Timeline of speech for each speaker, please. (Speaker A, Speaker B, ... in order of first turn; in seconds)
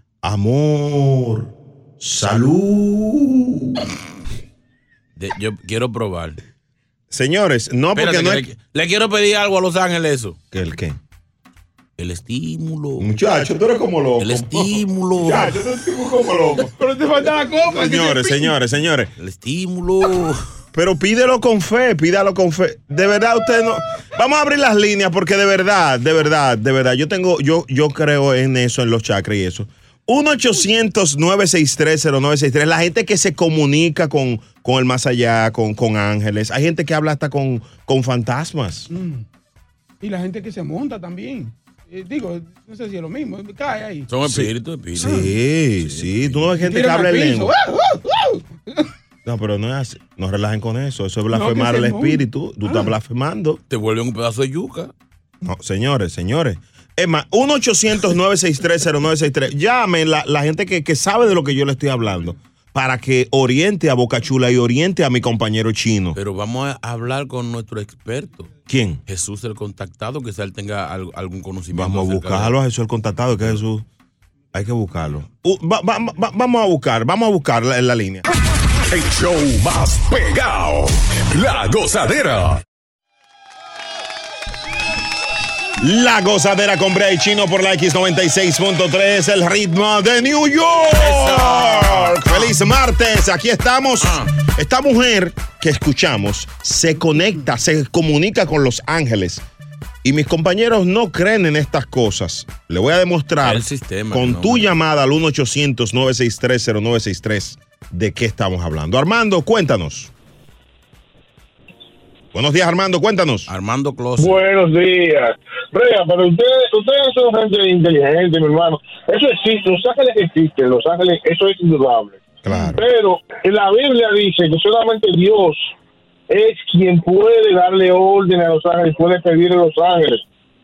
Speaker A: 0.2-3.8, 7.1-8.5, 10.5-11.0, 13.0-16.7, 17.7-19.1, 20.7-38.9, 44.2-47.5, 49.2-53.6, 55.4-66.2, 68.7-69.0, 71.7-73.8, 74.5-78.2, 85.8-99.4, 100.0-110.1, 112.3-113.5, 122.4-122.8
Speaker B: 5.2-6.4, 7.9-10.4, 12.0-13.1, 14.2-15.6, 19.2-20.4, 44.1-46.5, 53.7-54.9, 66.1-68.5, 69.1-72.5, 91.0-92.5, 94.0-94.3, 103.4-104.7, 113.5-114.4
Speaker C: 16.7-18.6, 38.9-39.2, 40.0-44.1, 46.5-48.4, 51.3-52.9
Speaker D: 78.9-82.6
Speaker E: 114.2-122.2, 122.7-125.7, 126.3-130.2